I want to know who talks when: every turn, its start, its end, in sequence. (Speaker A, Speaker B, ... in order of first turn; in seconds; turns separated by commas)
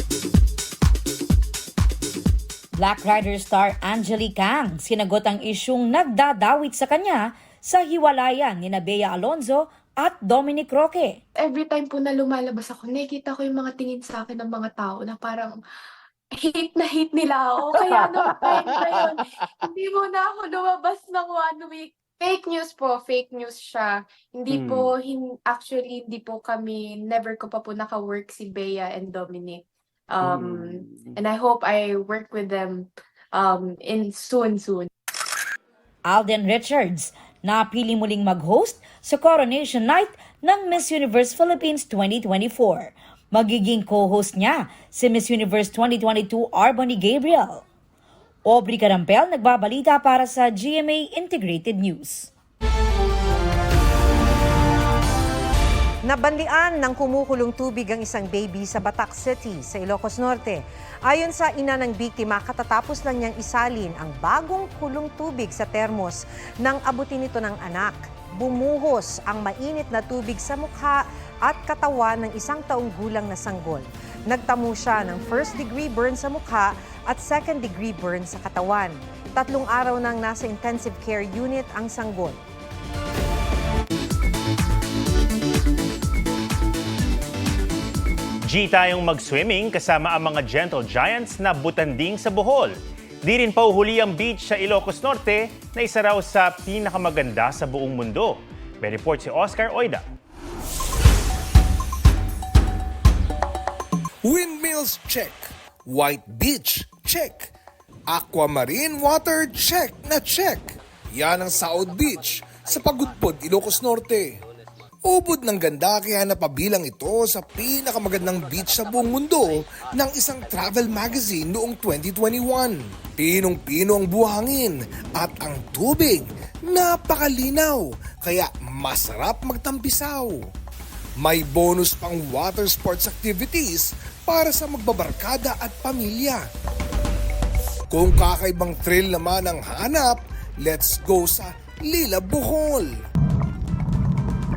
Speaker A: 2.8-11.2, Speaker B: 11.4-15.6, Speaker B: 16.3-34.9, Speaker A: 36.1-47.6, Speaker A: 48.5-52.3, Speaker C: 56.0-82.4, Speaker D: 88.5-100.0, Speaker E: 104.3-107.5, Speaker E: 108.1-114.3, Speaker E: 115.1-130.4, Speaker E: 131.2-136.4, Speaker E: 137.9-142.9